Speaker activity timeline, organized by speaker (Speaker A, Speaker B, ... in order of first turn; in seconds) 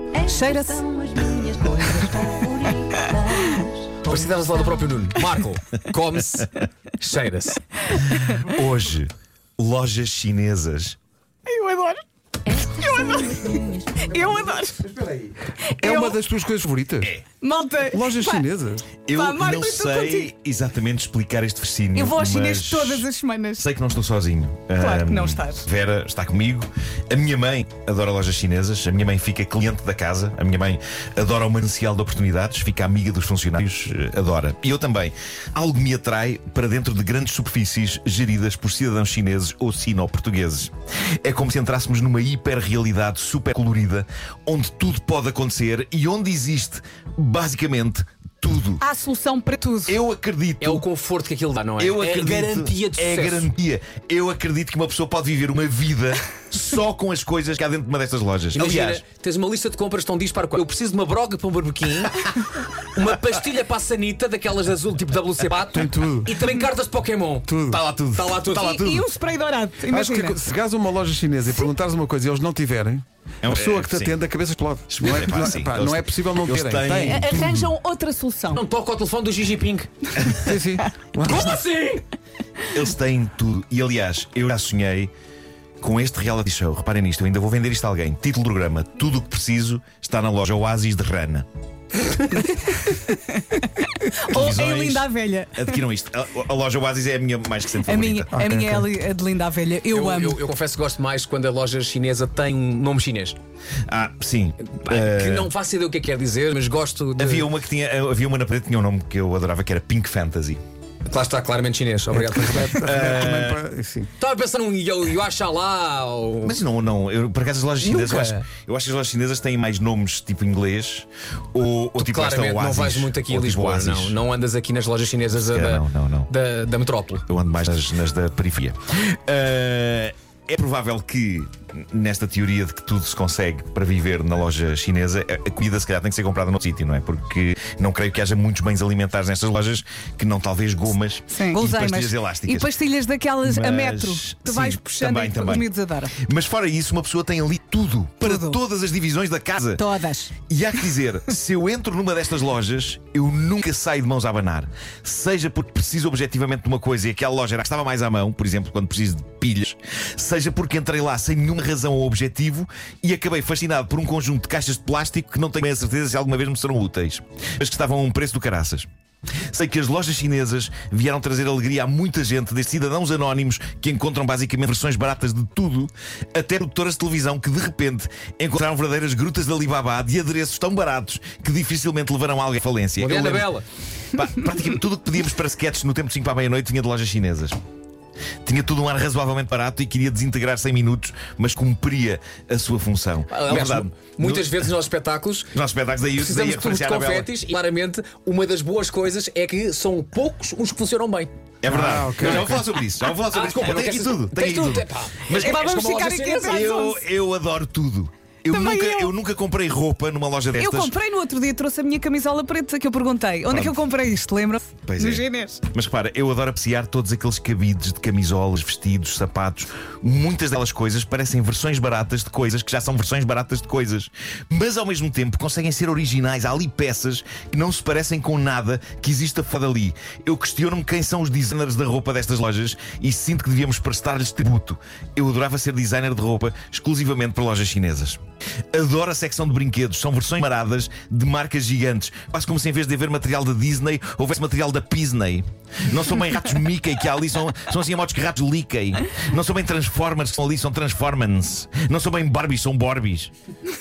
Speaker A: 0.1-4.9, 12.5-14.4
Speaker B: 0.2-0.8, 11.5-12.0, 12.7-14.9, 15.7-16.2, 17.4-18.5, 19.1-20.3, 21.9-23.6, 24.8-25.6, 48.8-50.0, 68.6-70.4, 77.0-78.6, 92.5-95.8, 97.8-100.4, 141.3-146.2, 148.2-148.6, 149.8-150.3, 205.3-207.0, 208.5-209.1, 210.6-215.6
Speaker C: 4.0-7.6, 50.6-53.5, 58.5-67.5, 68.1-68.8, 78.5-79.9, 81.2-82.0, 99.9-103.4, 104.8-107.5, 111.1-112.8, 114.2-116.6, 117.8-118.4, 122.0-127.2, 183.0-183.7, 193.3-195.5, 196.1-201.3, 203.3-206.8
Speaker D: 8.2-11.0, 19.1-40.7, 41.2-48.8, 49.9-50.8, 51.8-59.0, 67.7-69.1, 73.4-74.2, 74.9-77.7, 82.7-85.1, 85.8-91.5, 94.3-98.3, 103.9-105.5, 107.2-110.6, 112.8-113.6, 116.4-124.2, 125.5-126.3, 127.3-142.8, 143.4-149.8, 150.5-168.9, 169.5-183.5, 184.1-187.6, 188.4-194.6, 195.5-197.3, 201.6-205.7, 206.5-210.9, 213.5-213.8, 214.9-238.2, 238.7-253.3
Speaker E: 15.8-17.1, 17.9-18.9, 65.7-66.4, 67.5-67.8, 69.9-77.3, 80.3-81.6, 98.3-98.9, 112.2-114.1, 201.7-202.6